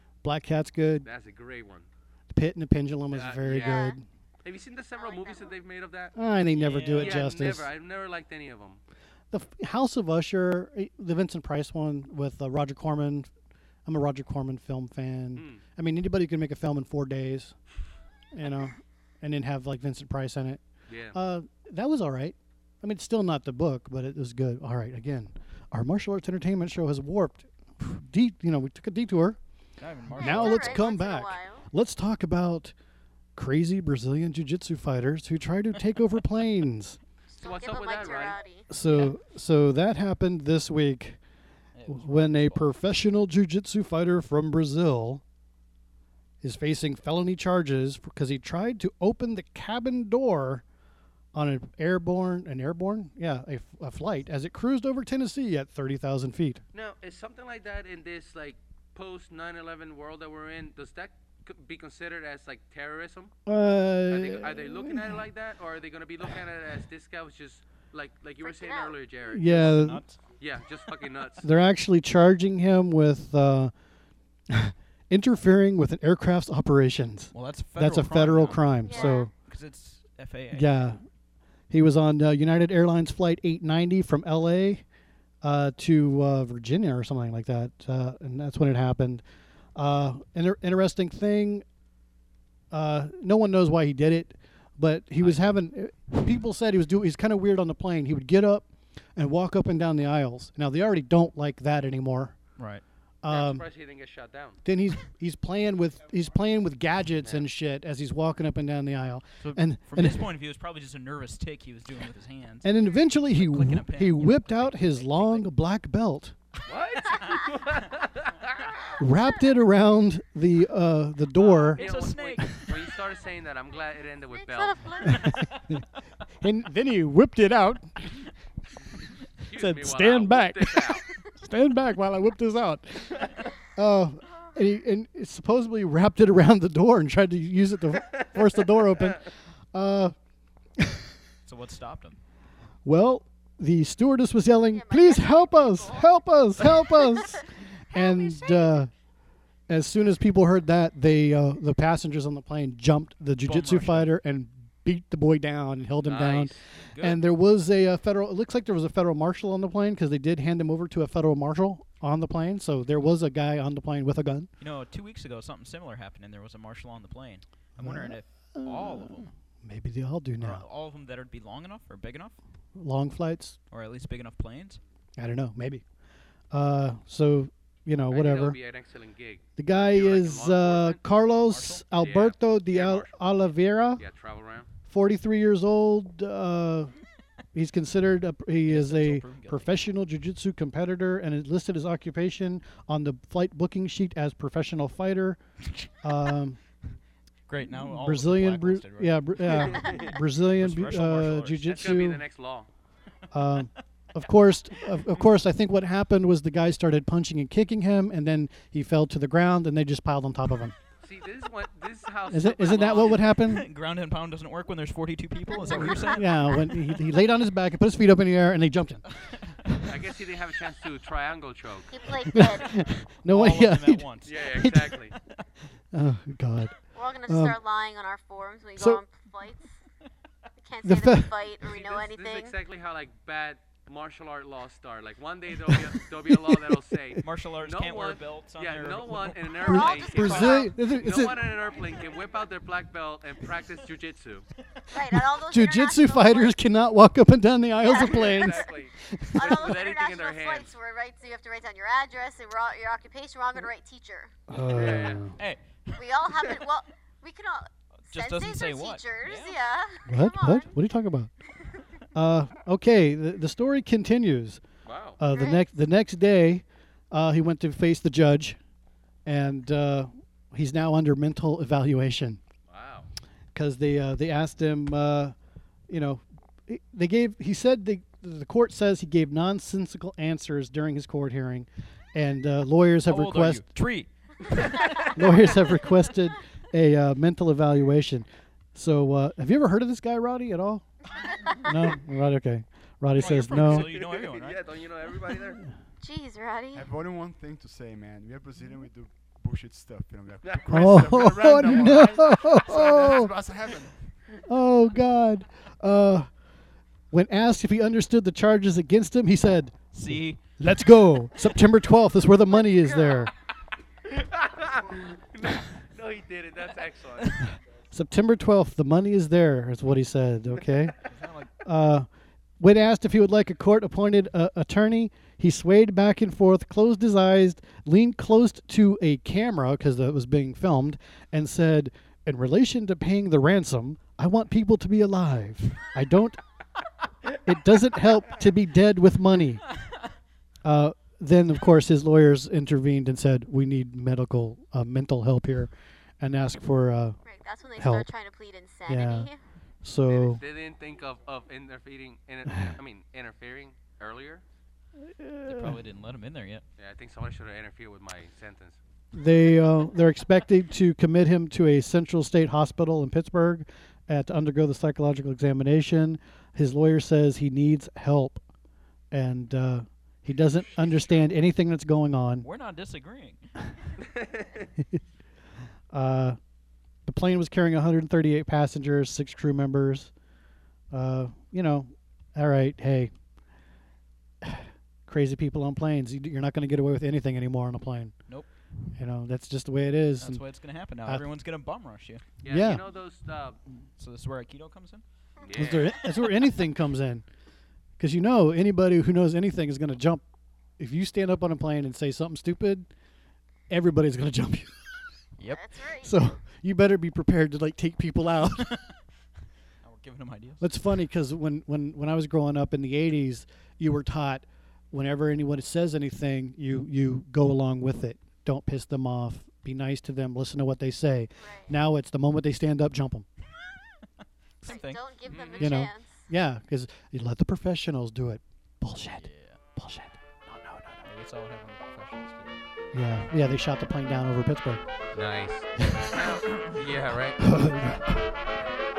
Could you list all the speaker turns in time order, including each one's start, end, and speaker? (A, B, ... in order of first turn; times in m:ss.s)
0:00.2-0:01.1 A
0:01.0-0:01.9 B
0:02.3-0:04.0 A
0:03.1-0:03.8 B
0:03.6-0:04.0 C
0:04.4-0:06.1 B
0:05.0-0:05.6 C
0:06.2-0:07.7 A
0:06.6-0:07.2 D
0:07.0-0:08.8 B
0:09.3-0:13.3 A
0:13.9-0:17.6 A
0:15.4-0:15.6 B
0:18.3-0:29.4 A
0:20.9-0:21.2 B
0:29.8-0:30.8 D
0:30.1-0:32.7 A
0:30.2-0:31.7 C
0:33.4-0:37.0 A
0:37.3-0:38.7 C
0:37.4-0:38.4 B
0:38.7-0:41.2 A
0:41.7-0:42.7 D
0:41.9-0:45.2 A
0:46.4-0:50.6 A
0:51.3-0:56.6 A
0:56.7-1:03.3 B
1:03.5-1:05.2 A
1:04.1-1:09.6 B
1:08.4-1:09.0 C
1:09.3-1:10.0 A
1:09.4-1:10.2 D
1:10.4-1:11.5 B
1:11.4-1:13.7 A
1:14.5-1:19.3 A
1:17.3-1:20.7 D
1:18.8-1:19.3 C
1:20.5-1:21.0 A
1:21.7-1:24.8 A
1:25.4-1:29.2 A
1:29.8-1:31.6 A
1:32.7-1:42.4 A
1:35.2-1:35.6 D
1:42.6-1:42.8 D
1:43.2-1:43.6 A
1:43.3-1:44.6 B
1:44.6-1:50.3 A
1:49.4-1:52.7 D
1:52.6-1:56.4 A
1:53.3-1:55.5 D
1:56.7-1:58.6 B
1:59.0-2:01.9 A
2:01.4-2:05.1 B
2:01.8-2:02.8 D
2:02.4-2:02.6 A
2:04.3-2:05.3 C
2:05.0-2:05.8 A
2:06.4-2:08.2 A
2:09.5-2:11.1 B
2:09.5-2:20.1 A
2:20.8-2:21.0 A
2:21.5-2:22.2 D
2:22.8-2:28.9 A
2:24.7-2:26.1 C
2:27.9-2:28.8 C
2:29.7-2:44.5 A
2:33.4-2:34.1 D
2:36.0-2:37.2 B
2:44.6-2:49.3 D
2:47.8-2:50.7 A
2:50.4-2:52.4 D
2:52.8-2:53.6 A
2:53.7-2:54.8 D
2:55.2-2:55.8 A
2:56.5-2:58.6 A
2:58.1-3:01.0 B
2:59.6-3:04.0 A
3:01.5-3:01.9 D
3:02.0-3:03.2 B
3:04.0-3:04.7 B
3:04.9-3:06.9 A
3:07.5-3:15.4 A
3:08.7-3:09.7 D
3:16.0-3:16.6 A
3:17.5-3:19.6 D
3:17.7-3:22.2 A
3:19.7-3:20.1 C
3:20.5-3:21.7 D
3:21.7-3:22.7 B
3:23.3-3:30.8 A
3:31.0-3:33.3 B
3:32.3-3:33.7 A
3:32.8-3:36.8 D
3:35.7-3:36.1 C
3:36.1-3:39.0 A
3:39.9-3:41.9 B
3:41.9-3:42.7 C
3:42.3-3:45.0 A
3:43.3-3:44.3 D
3:44.2-3:45.2 B
3:45.9-3:47.6 A
3:46.9-3:49.8 C
3:48.8-3:49.0 A
3:50.6-3:52.6 C
3:50.8-3:51.3 A
3:51.7-4:04.5 B
3:55.7-3:56.8 A
3:57.2-4:00.6 D
3:59.6-4:00.7 C
3:59.6-4:01.4 A
4:04.9-4:06.6 C
4:05.3-4:09.7 A
4:07.8-4:08.7 C
4:08.0-4:10.7 B
4:09.3-4:14.3 C
4:14.5-4:15.3 A
4:14.7-4:15.2 B
4:15.4-4:16.6 D
4:16.0-4:20.8 C
4:18.1-4:19.6 D
4:20.1-4:21.3 A
4:22.1-4:24.6 A
4:24.8-4:25.2 B
4:25.2-4:28.6 A
4:25.3-4:25.8 C
4:29.2-4:32.4 A
4:32.7-4:33.1 B
4:33.5-4:35.3 A
4:35.9-4:43.7 A
4:43.1-4:45.1 D
4:45.0-4:50.9 A
4:51.6-4:53.9 A
4:53.2-4:54.6 D
4:53.5-4:55.6 B
4:56.0-4:56.9 C
4:56.7-5:04.1 E
5:00.7-5:03.3 A
5:04.5-5:06.3 A
5:07.1-5:13.3 A
5:09.9-5:10.4 D
5:14.1-5:17.6 B
5:17.9-5:20.9 A
5:21.1-5:21.5 D
5:21.6-5:22.1 A
5:22.6-5:36.4 A
5:37.4-5:39.6 A
5:40.6-5:47.2 A
5:47.2-5:49.4 C
5:47.8-5:48.1 A
5:48.9-5:49.3 A
5:49.8-5:50.4 A
5:50.1-5:54.4 B
5:55.1-5:55.8 A
5:55.4-5:56.6 D
5:56.8-5:58.8 B
5:59.1-6:08.4 A
6:09.1-6:12.5 A
6:12.4-6:13.8 D
6:14.2-6:14.4 B
6:15.9-6:16.4 A
6:17.1-6:20.1 A
6:20.9-6:23.1 A
6:24.4-6:28.1 A
6:29.0-6:30.4 A
6:30.2-6:32.2 D
6:32.4-6:33.6 B
6:32.5-6:32.8 A
6:34.0-6:35.0 D
6:35.4-6:35.9 B
6:35.5-6:37.2 A
6:38.0-6:40.2 A
6:40.8-6:42.9 A
6:43.7-6:44.8 A
6:45.5-6:46.2 C
6:46.0-6:48.7 A
6:48.6-6:48.9 D
6:49.8-6:50.7 D
6:50.6-7:03.3 A
7:01.4-7:01.8 C
7:04.6-7:05.0 D
7:04.6-7:06.3 C
7:05.3-7:05.8 B
7:05.6-7:11.0 A
7:09.1-7:09.6 D
7:11.0-7:12.6 D
7:12.9-7:14.8 A
7:15.1-7:17.4 B
7:15.8-7:16.1 A
7:17.4-7:18.3 A